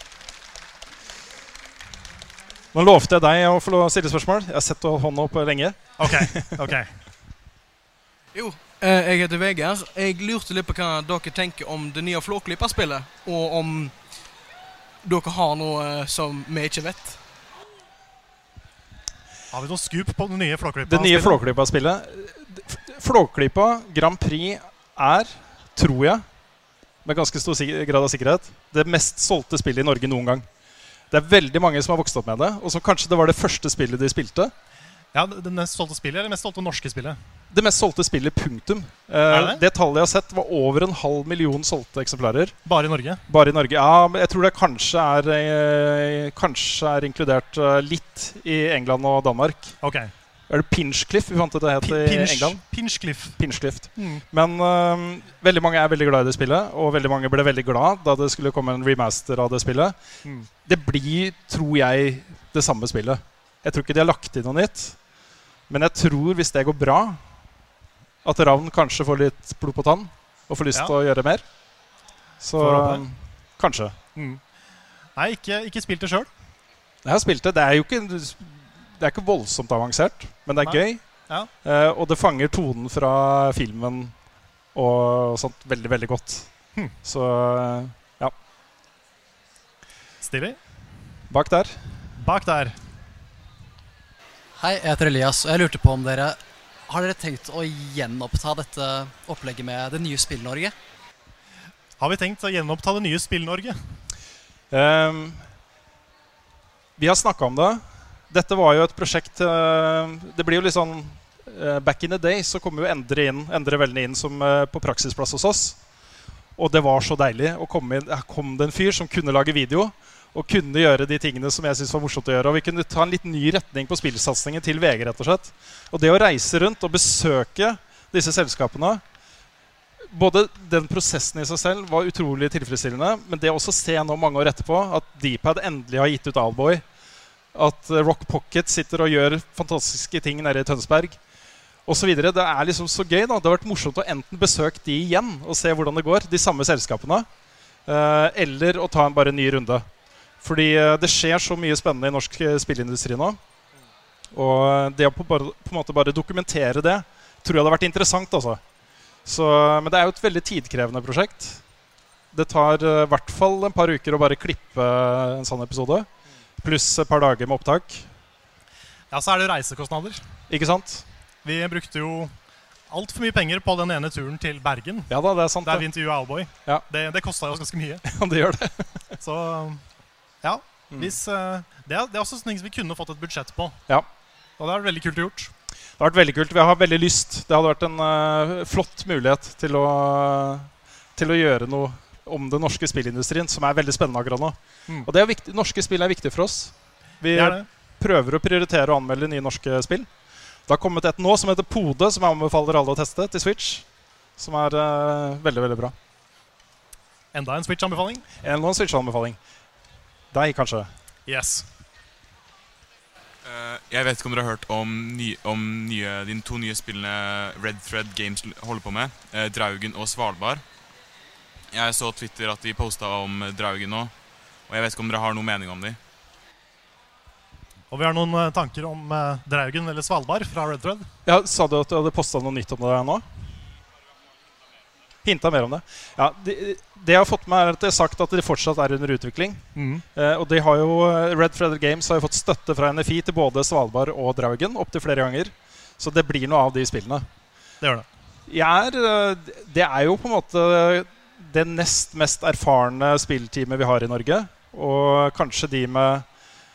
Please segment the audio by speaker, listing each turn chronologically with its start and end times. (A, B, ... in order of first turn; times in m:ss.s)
0:02.7-0:06.5 A
0:06.0-0:06.9 B
0:08.3-0:13.9 C
0:15.0-0:17.2 C
0:19.5-0:21.4 B
0:20.8-0:26.2 A
0:27.0-0:30.4 A
0:31.1-0:34.5 A
0:35.1-0:37.2 B
0:37.5-0:42.5 A
0:39.3-0:39.6 B
0:42.6-0:43.2 B
0:43.3-0:49.8 A
0:49.8-0:50.1 B
0:50.5-0:52.6 A
0:51.8-0:53.4 B
0:53.4-1:00.0 A
0:54.0-0:54.2 B
1:00.6-1:05.0 A
1:05.7-1:07.2 A
1:08.2-1:11.4 A
1:12.4-1:14.0 A
1:12.6-1:13.0 B
1:14.2-1:14.4 B
1:15.2-1:16.3 B
1:17.0-1:21.0 A
1:20.6-1:21.5 B
1:21.6-1:24.1 A
1:24.7-1:26.5 A
1:27.0-1:28.3 A
1:30.2-1:30.6 B
1:31.3-1:31.8 A
1:32.2-1:32.8 B
1:34.6-1:40.7 D
1:42.0-1:43.8 B
1:44.7-1:45.4 A
1:47.0-1:55.8 A
1:56.6-2:09.0 A
2:10.1-2:16.8 A
2:17.5-2:21.2 A
2:21.8-2:27.3 A
2:27.9-2:29.8 A
2:30.4-2:33.4 A
2:34.3-2:38.6 A
2:39.2-2:41.6 A
2:42.3-2:46.1 A
2:46.6-2:48.0 A
2:49.1-2:50.2 B
2:50.5-2:51.0 A
2:51.4-2:52.3 B
2:52.9-2:55.1 B
2:55.1-2:55.8 A
2:55.6-2:58.0 B
2:58.0-2:58.8 A
2:59.2-2:59.8 B
3:00.4-3:03.8 B
3:04.6-3:05.5 B
3:06.0-3:20.1 A
3:17.3-3:17.6 B
3:20.7-3:23.8 A
3:24.4-3:25.9 A
3:27.3-3:28.2 B
3:28.4-3:29.4 A
3:30.3-3:30.9 A
3:31.3-3:31.6 B
3:33.4-3:40.6 E
3:41.7-3:44.1 E
3:44.7-3:46.0 E
3:47.9-3:51.1 B
3:51.2-3:53.2 A
3:55.2-3:59.6 A
3:59.8-4:00.0 B
4:00.1-4:07.2 A
4:07.8-4:08.0 B
4:08.5-4:16.2 A